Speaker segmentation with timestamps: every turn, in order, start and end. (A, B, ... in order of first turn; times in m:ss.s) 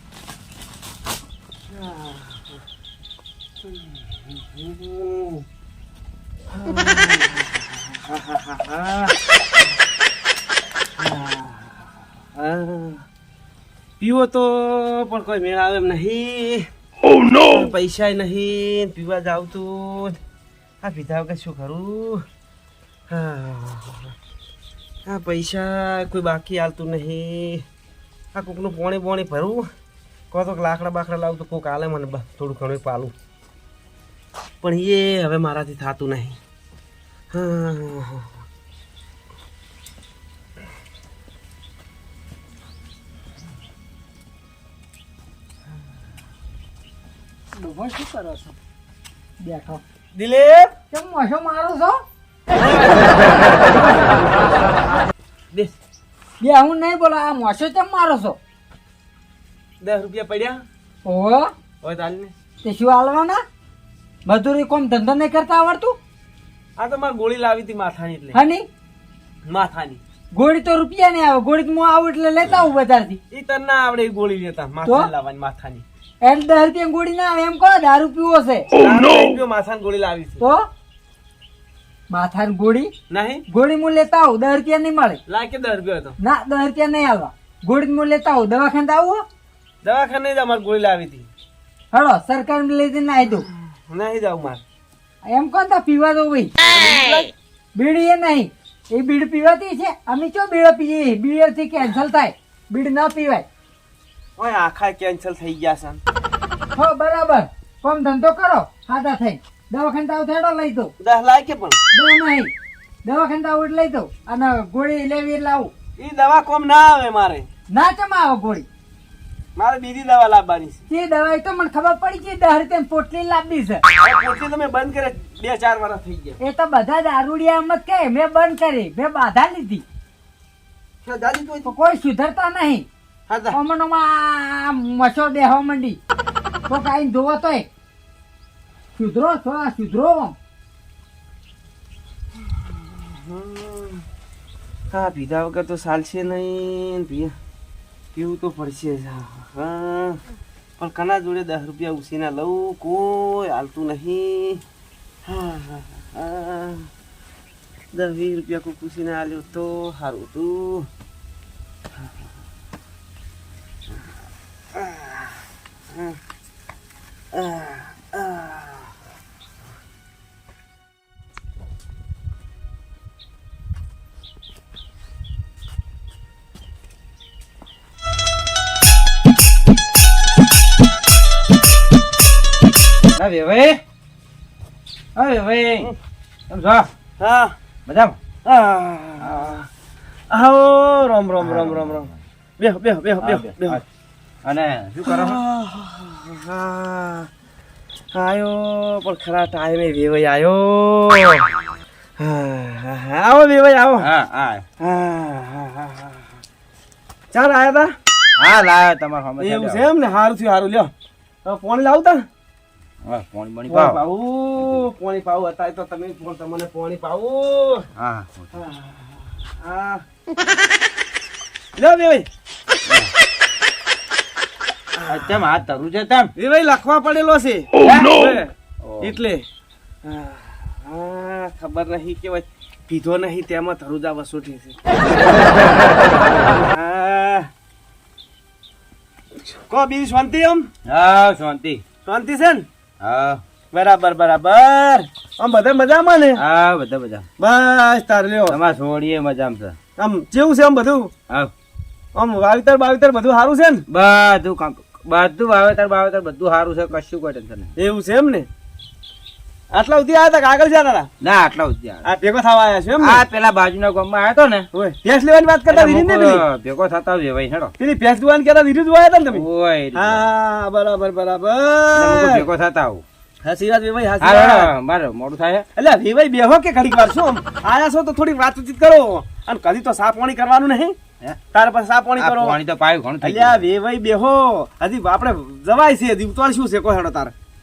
0:01.7-0:02.6 A
0:03.7-0:05.4 A
0:06.5-0:09.2 A
0:11.0-0:13.0 A
0:14.0-0:16.7 A
0:17.3-0:20.2 A
0:20.8-0:22.2 A
0:23.1-0:24.1 A
0:25.1-0:27.6 A
0:28.3-0:29.7 A
0:30.3-0:33.1 A
0:34.6-0:36.4 A
0:37.3-0:38.2 A
0:47.6-0:48.6 B
0:49.4-0:49.8 B
0:50.2-0:50.7 A
0:50.9-0:52.0 B
0:52.6-0:53.6 A
0:56.4-0:58.4 B
0:59.8-1:00.6 A
1:01.1-1:01.5 B
1:01.8-1:02.3 A
1:02.6-1:03.4 B
1:04.3-1:06.0 B
1:06.8-1:08.4 A
1:08.3-1:08.6 B
1:09.5-1:10.0 A
1:10.4-1:13.2 B
1:13.3-1:15.8 A
1:16.2-1:18.7 B
1:18.8-1:20.4 A
1:20.4-1:20.6 B
1:22.1-1:22.9 B
1:23.1-1:23.4 A
1:23.5-1:25.2 B
1:25.3-1:26.2 A
1:26.2-1:29.2 B
1:29.8-1:31.3 A
1:31.9-1:33.5 B
1:33.9-1:34.6 A
1:35.3-1:36.5 B
1:36.7-1:37.3 A
1:37.8-1:43.5 B
1:44.4-1:46.0 A
1:46.8-1:50.9 B
1:51.0-1:51.8 A
1:51.9-1:52.5 B
1:53.0-1:55.7 B
1:56.0-1:57.5 A
1:57.7-1:58.7 B
1:59.6-2:00.8 A
2:00.9-2:03.8 B
2:04.0-2:06.4 A
2:06.4-2:09.8 B
2:11.0-2:11.7 A
2:11.6-2:12.9 B
2:13.3-2:13.6 A
2:13.5-2:16.0 B
2:16.7-2:17.7 B
2:19.0-2:20.4 B
2:22.5-2:24.0 A
2:24.9-2:27.4 A
2:28.2-2:30.2 A
2:30.8-2:34.6 A
2:35.3-2:36.9 A
2:37.9-2:40.9 A
2:44.7-2:45.4 A
2:47.3-2:48.8 A
3:03.2-3:03.8 C
3:05.2-3:05.9 C
3:06.5-3:06.9 C
3:07.2-3:07.6 A
3:07.9-3:08.2 C
3:08.4-3:09.7 A
3:09.2-3:09.6 C
3:10.3-3:13.8 A
3:11.4-3:12.2 C
3:13.2-3:13.8 C
3:14.4-3:15.4 C
3:15.0-3:17.3 A
3:18.1-3:21.5 A
3:22.2-3:24.1 A
3:24.0-3:24.6 C
3:24.8-3:26.2 A
3:27.3-3:27.9 A
3:28.4-3:29.9 C
3:29.4-3:30.9 A
3:31.4-3:32.2 A
3:33.0-3:34.0 C
3:33.7-3:37.9 A
3:34.6-3:34.9 C
3:38.0-3:38.6 C
3:38.5-3:40.0 A
3:41.8-3:42.3 A
3:45.0-3:45.5 A
3:45.1-3:46.3 C
3:46.4-3:48.5 A
3:47.8-3:49.2 C
3:49.0-3:49.4 A
3:50.0-3:54.8 A
3:56.5-3:57.5 A
3:59.5-4:00.7 A
4:00.9-4:01.8 C
4:02.0-4:02.7 A
4:03.0-4:03.4 C
4:03.7-4:06.4 A
4:06.4-4:07.3 C
4:07.4-4:08.6 A
4:08.5-4:09.8 C
4:10.0-4:11.1 A
4:12.2-4:13.8 A
4:13.9-4:17.7 C
4:17.8-4:18.5 A
4:19.7-4:21.1 A
4:21.2-4:22.1 C
4:22.0-4:23.2 A
4:23.0-4:24.7 C
4:24.7-4:26.4 A
4:25.7-4:27.7 C
4:27.8-4:32.5 A
4:29.3-4:30.3 C
4:31.9-4:33.0 C
4:33.4-4:34.7 A
4:34.2-4:35.7 C
4:35.8-4:41.0 A
4:41.5-4:42.6 A
4:42.2-4:43.6 C
4:43.2-4:47.3 A